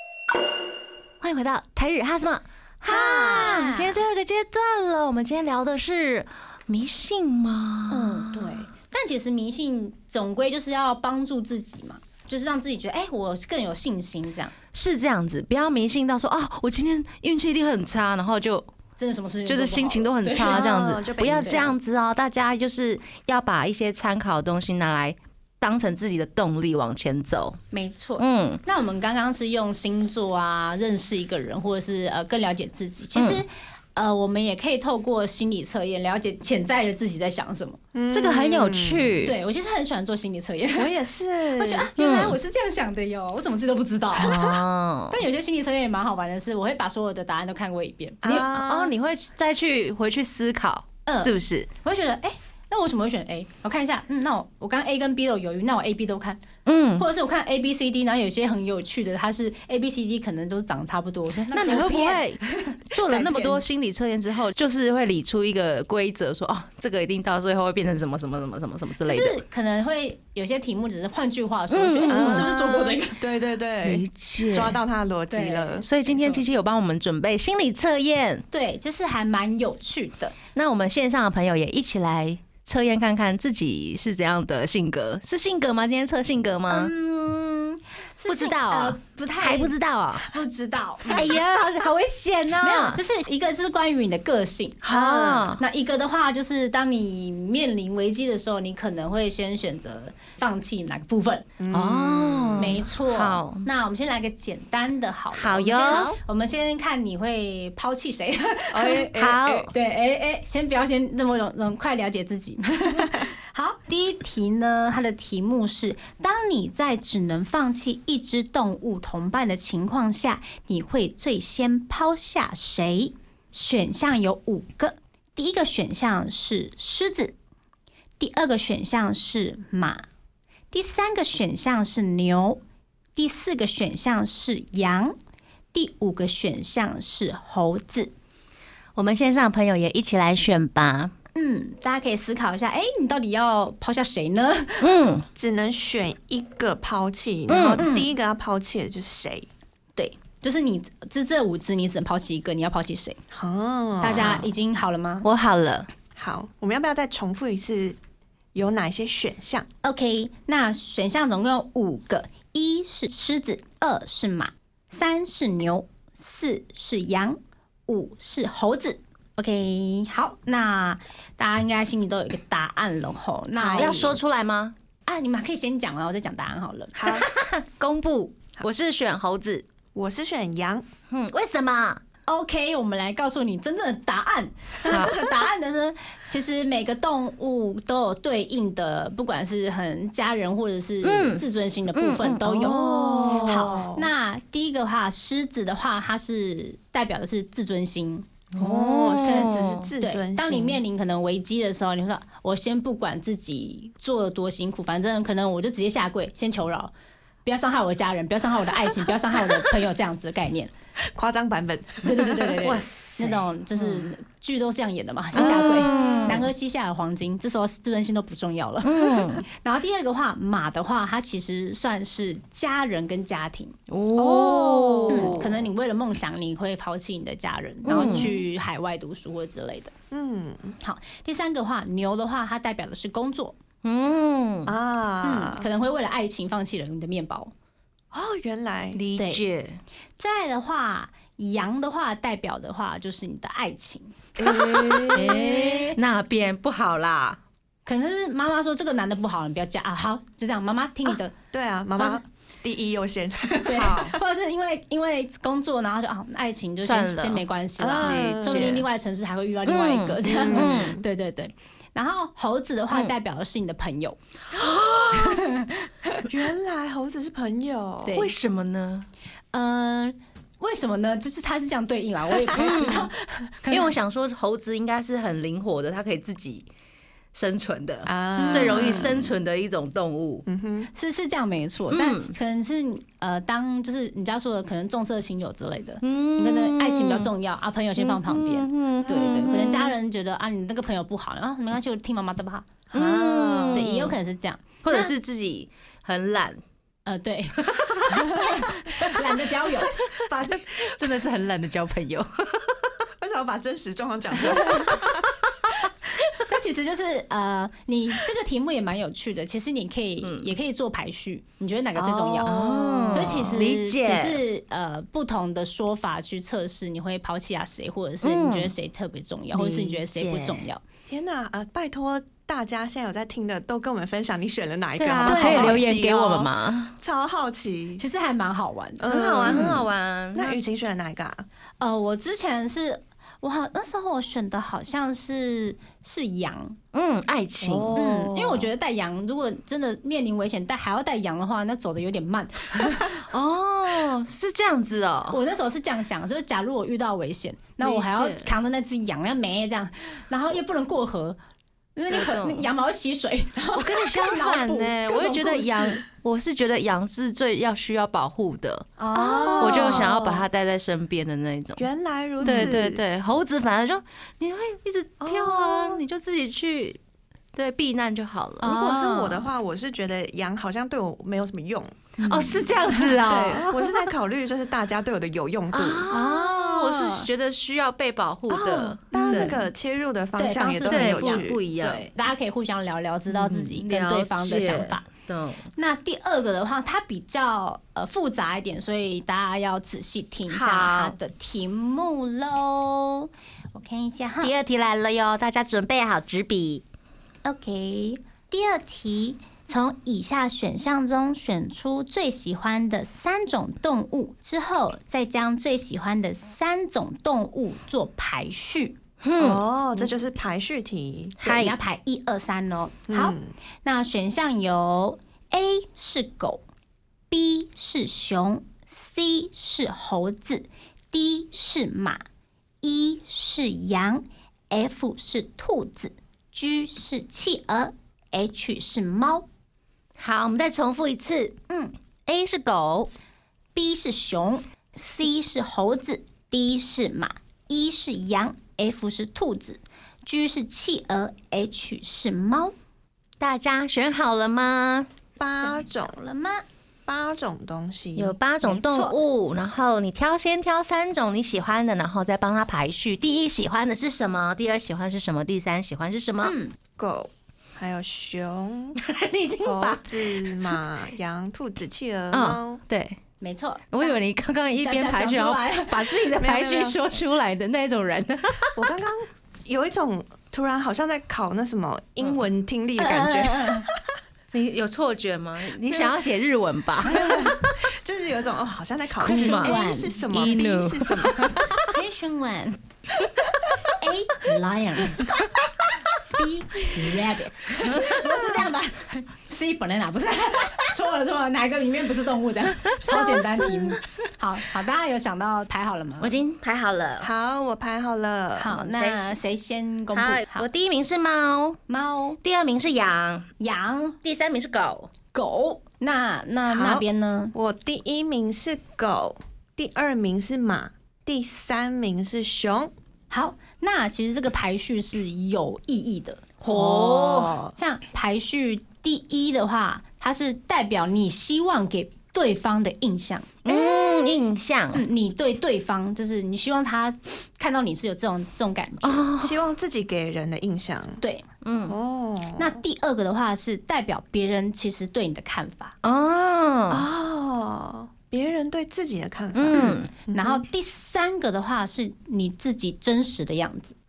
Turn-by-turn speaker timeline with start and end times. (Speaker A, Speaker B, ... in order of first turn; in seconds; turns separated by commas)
Speaker A: 1.2-8.6, Speaker B: 2.9-3.6, Speaker C: 2.9-4.0, Speaker C: 7.9-14.5, Speaker A: 14.7-18.7, Speaker C: 19.0-20.7, Speaker A: 19.5-27.6, Speaker B: 20.4-21.7, Speaker C: 27.7-37.8, Speaker A: 28.2-28.6, Speaker A: 33.2-33.4, Speaker B: 37.9-39.1, Speaker A: 38.1-39.4, Speaker C: 39.2-40.9, Speaker B: 40.8-41.9, Speaker C: 41.5-48.2, Speaker A: 42.0-42.4, Speaker A: 44.1-45.2, Speaker B: 48.2-48.9, Speaker A: 48.2-51.7, Speaker C: 51.1-56.5, Speaker A: 56.7-57.1, Speaker C: 57.0-63.6, Speaker A: 61.5-62.4, Speaker A: 62.9-69.4, Speaker C: 69.0-73.2, Speaker A: 71.7-72.5, Speaker B: 72.1-75.9, Speaker A: 73.8-74.8, Speaker C: 75.3-76.4, Speaker A: 75.8-78.5, Speaker C: 78.5-80.4, Speaker A: 80.5-86.9, Speaker C: 86.7-91.3, Speaker A: 88.3-90.3, Speaker A: 91.1-93.0, Speaker C: 92.6-101.5, Speaker A: 94.8-95.6, Speaker B: 94.9-95.5, Speaker B: 101.6-102.8, Speaker A: 101.7-103.7, Speaker C: 102.6-127.4, Speaker A: 105.4-106.2, Speaker A: 108.7-109.7, Speaker B: 109.3-109.7, Speaker C: 128.2-130.1, Speaker C: 130.7-132.6, Speaker C: 133.2-135.2, Speaker C: 135.7-138.1, Speaker A: 138.9-141.1, Speaker C: 141.3-145.0, Speaker A: 144.8-145.3, Speaker B: 145.4-149.5, Speaker A: 147.5-147.9, Speaker C: 147.8-148.1, Speaker C: 150.0-153.2, Speaker B: 153.3-154.4, Speaker C: 154.0-155.3, Speaker A: 154.2-154.5, Speaker A: 155.2-155.9, Speaker B: 156.2-158.0, Speaker B: 158.5-159.7, Speaker C: 159.8-174.1, Speaker B: 173.6-174.2, Speaker A: 173.7-174.8, Speaker C: 175.1-177.0, Speaker B: 176.9-177.3, Speaker A: 177.1-179.7, Speaker B: 179.9-180.9, Speaker A: 181.1-182.0, Speaker C: 182.3-198.3, Speaker A: 184.9-185.3, Speaker A: 191.0-193.7, Speaker B: 192.5-194.1, Speaker B: 198.6-200.8, Speaker A: 198.6-199.9, Speaker C: 199.2-206.9, Speaker C: 207.4-210.7, Speaker B: 211.1-212.6, Speaker C: 212.0-223.8, Speaker A: 212.6-213.4, Speaker A: 215.3-216.5, Speaker B: 215.4-216.4, Speaker A: 218.8-219.4, Speaker A: 223.9-225.5, Speaker B: 224.2-225.7, Speaker C: 225.1-229.9, Speaker A: 227.9-228.3, Speaker B: 227.9-228.4, Speaker B: 230.1-230.8, Speaker C: 230.8-233.6, Speaker A: 233.8-234.8, Speaker B: 234.7-235.7, Speaker C: 235.2-237.5, Speaker B: 238.1-239.0, Speaker A: 238.9-239.8, Speaker C: 239.2-239.5, Speaker C: 240.2-244.2, Speaker B: 244.4-245.6, Speaker A: 244.4-247.4, Speaker C: 245.1-246.0, Speaker C: 247.9-251.3, Speaker B: 251.5-254.0, Speaker C: 253.6-264.2, Speaker A: 253.8-254.2, Speaker A: 256.8-258.9, Speaker B: 257.8-258.8, Speaker A: 259.7-261.0, Speaker B: 260.3-261.1, Speaker B: 264.5-265.5, Speaker C: 265.1-265.9, Speaker B: 266.1-268.2, Speaker C: 268.1-268.3, Speaker A: 268.1-269.1, Speaker C: 269.5-273.9, Speaker A: 272.5-273.1, Speaker A: 273.7-276.7, Speaker A: 277.3-280.5, Speaker B: 278.1-279.3, Speaker C: 278.4-279.1, Speaker B: 280.5-280.9, Speaker C: 280.9-292.9, Speaker A: 281.9-282.3, Speaker A: 286.0-287.3, Speaker A: 288.0-289.9, Speaker A: 292.9-294.2, Speaker B: 292.9-293.9, Speaker C: 293.6-295.1, Speaker A: 294.8-296.6, Speaker C: 297.1-300.0, Speaker A: 297.6-298.5, Speaker B: 300.1-300.9, Speaker A: 300.8-302.9, Speaker B: 303.2-305.7, Speaker C: 304.4-304.9, Speaker C: 306.4-312.5, Speaker A: 310.2-310.5, Speaker B: 312.0-313.6, Speaker A: 312.4-314.4, Speaker C: 313.1-320.8, Speaker A: 318.2-318.7, Speaker A: 319.5-320.6, Speaker B: 321.1-328.0, Speaker A: 325.0-326.9, Speaker C: 325.2-325.9, Speaker C: 328.0-329.8, Speaker B: 329.0-331.4, Speaker A: 329.1-330.6, Speaker C: 331.8-336.8, Speaker A: 336.9-338.0, Speaker B: 337.6-338.7, Speaker C: 338.0-343.2, Speaker A: 343.2-345.4, Speaker C: 345.3-351.4, Speaker A: 347.8-348.5, Speaker C: 352.0-356.0, Speaker A: 352.1-352.7, Speaker A: 353.7-358.9, Speaker C: 359.0-360.1, Speaker B: 359.1-360.5, Speaker A: 359.6-361.9, Speaker B: 361.8-363.0, Speaker C: 362.4-362.8, Speaker A: 362.4-367.0, Speaker B: 365.2-366.0, Speaker A: 367.6-369.5, Speaker B: 368.6-376.1, Speaker C: 372.2-372.7, Speaker A: 372.3-374.1, Speaker A: 375.7-379.6, Speaker C: 376.1-377.3, Speaker B: 378.5-381.6, Speaker C: 379.1-379.6, Speaker C: 380.4-385.1, Speaker A: 380.9-382.1, Speaker A: 383.3-385.7, Speaker C: 385.8-394.5, Speaker A: 390.5-391.1, Speaker A: 394.4-396.8, Speaker C: 397.4-409.0, Speaker A: 409.2-409.6, Speaker B: 409.4-411.4, Speaker A: 411.4-411.8, Speaker C: 411.4-416.6, Speaker B: 413.1-413.5, Speaker C: 417.3-422.2, Speaker C: 422.8-429.5, Speaker A: 430.2-431.6, Speaker C: 431.7-431.9, Speaker A: 432.3-433.1, Speaker C: 433.8-442.7, Speaker A: 443.4-445.1, Speaker B: 445.4-446.1, Speaker C: 445.4-446.6, Speaker B: 447.1-448.4, Speaker A: 448.2-456.5, Speaker C: 448.6-449.2, Speaker C: 456.4-456.8, Speaker B: 457.0-459.0, Speaker A: 459.0-460.8, Speaker B: 459.6-462.8, Speaker A: 462.3-463.2, Speaker C: 463.4-464.2, Speaker A: 463.9-468.8, Speaker C: 464.8-466.2, Speaker B: 466.4-467.0, Speaker B: 468.8-474.1, Speaker C: 473.0-473.9, Speaker A: 474.5-477.6, Speaker B: 477.0-481.9, Speaker A: 479.2-481.5, Speaker C: 479.2-480.2, Speaker C: 481.8-482.8, Speaker C: 484.0-485.4, Speaker C: 486.2-496.4, Speaker A: 492.9-494.0, Speaker A: 496.2-497.3, Speaker B: 497.2-498.7, Speaker C: 498.6-500.7, Speaker A: 498.7-499.4, Speaker A: 500.1-501.8, Speaker C: 501.9-502.4, Speaker A: 502.4-503.5, Speaker C: 503.6-504.2, Speaker A: 504.2-505.1, Speaker C: 505.3-507.5, Speaker B: 506.7-512.9, Speaker C: 513.3-524.3, Speaker B: 516.6-517.7, Speaker A: 523.6-525.0, Speaker C: 524.9-529.3, Speaker A: 529.0-529.6, Speaker B: 529.4-531.2, Speaker C: 531.2-531.5, Speaker A: 531.6-532.0, Speaker B: 531.9-532.8, Speaker C: 532.6-536.0, Speaker A: 536.0-537.1, Speaker B: 536.9-540.6, Speaker A: 539.5-540.1, Speaker C: 539.8-544.0